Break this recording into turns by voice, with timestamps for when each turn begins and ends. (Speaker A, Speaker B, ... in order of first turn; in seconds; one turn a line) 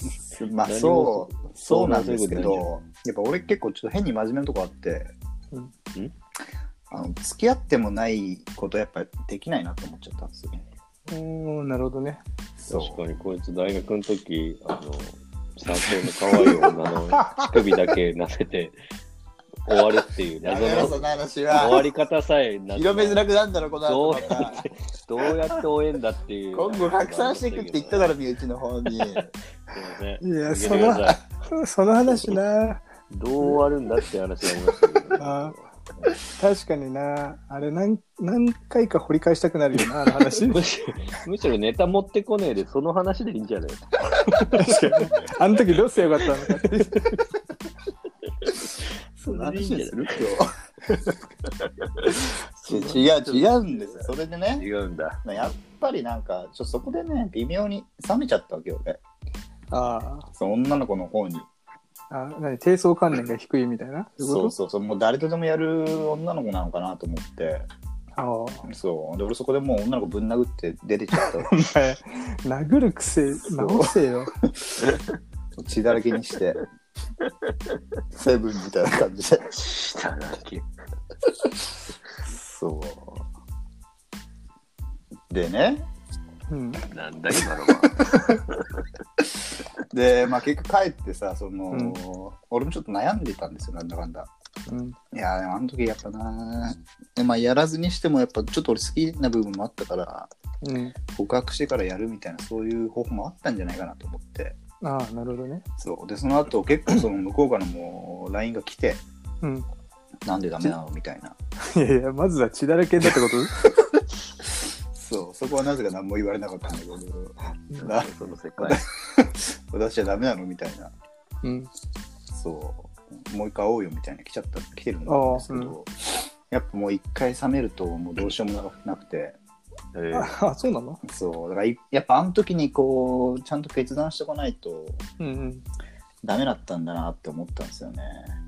Speaker A: 0.2-5.1
Speaker B: 0.6-2.7
Speaker A: 6.9-10.6
Speaker C: 11.1-12.2
Speaker A: 12.6-13.0
Speaker B: 12.7-18.8
Speaker B: 19.7-23.2
Speaker A: 20.4-21.9
Speaker A: 22.7-24.6
Speaker B: 23.8-28.1
Speaker A: 26.5-29.3
Speaker B: 29.7-31.2
Speaker C: 30.2-32.8
Speaker B: 33.1-36.1
Speaker C: 35.2-35.5
Speaker C: 36.4-40.6
Speaker B: 40.5-45.1
Speaker C: 44.2-47.1
Speaker A: 49.2-50.5
Speaker B: 49.3-50.3
Speaker B: 51.4-55.5
Speaker A: 52.6-54.7
Speaker A: 55.2-59.0
Speaker C: 59.7-60.3
Speaker A: 60.3-61.5
Speaker C: 62.1-64.5
Speaker A: 64.2-67.7
Speaker C: 68.2-68.7
Speaker A: 68.7-71.5
Speaker C: 71.2-74.3
Speaker A: 73.5-73.9
Speaker A: 74.4-74.7
Speaker A: 75.5-76.6
Speaker A: 78.1-79.5
Speaker B: 79.5-80.7
Speaker A: 82.2-83.3
Speaker A: 85.3-85.9
Speaker C: 86.5-86.8
Speaker B: 86.9-88.7
Speaker A: 87.7-88.3
Speaker A: 89.9-94.3
Speaker C: 91.7-92.0
Speaker C: 94.7-95.0
Speaker A: 95.1-100.3
Speaker C: 100.6-100.9
Speaker A: 101.1-104.6
Speaker C: 104.8-105.6
Speaker A: 105.8-109.0
Speaker A: 110.2-111.3
Speaker C: 111.6-113.7
Speaker A: 114.9-120.9
Speaker B: 117.8-118.8
Speaker C: 121.4-121.7
Speaker A: 122.3-129.4
Speaker C: 125.0-125.7
Speaker B: 129.9-130.3
Speaker C: 130.1-131.0
Speaker A: 131.0-135.0
Speaker C: 135.2-135.6
Speaker A: 136.2-138.3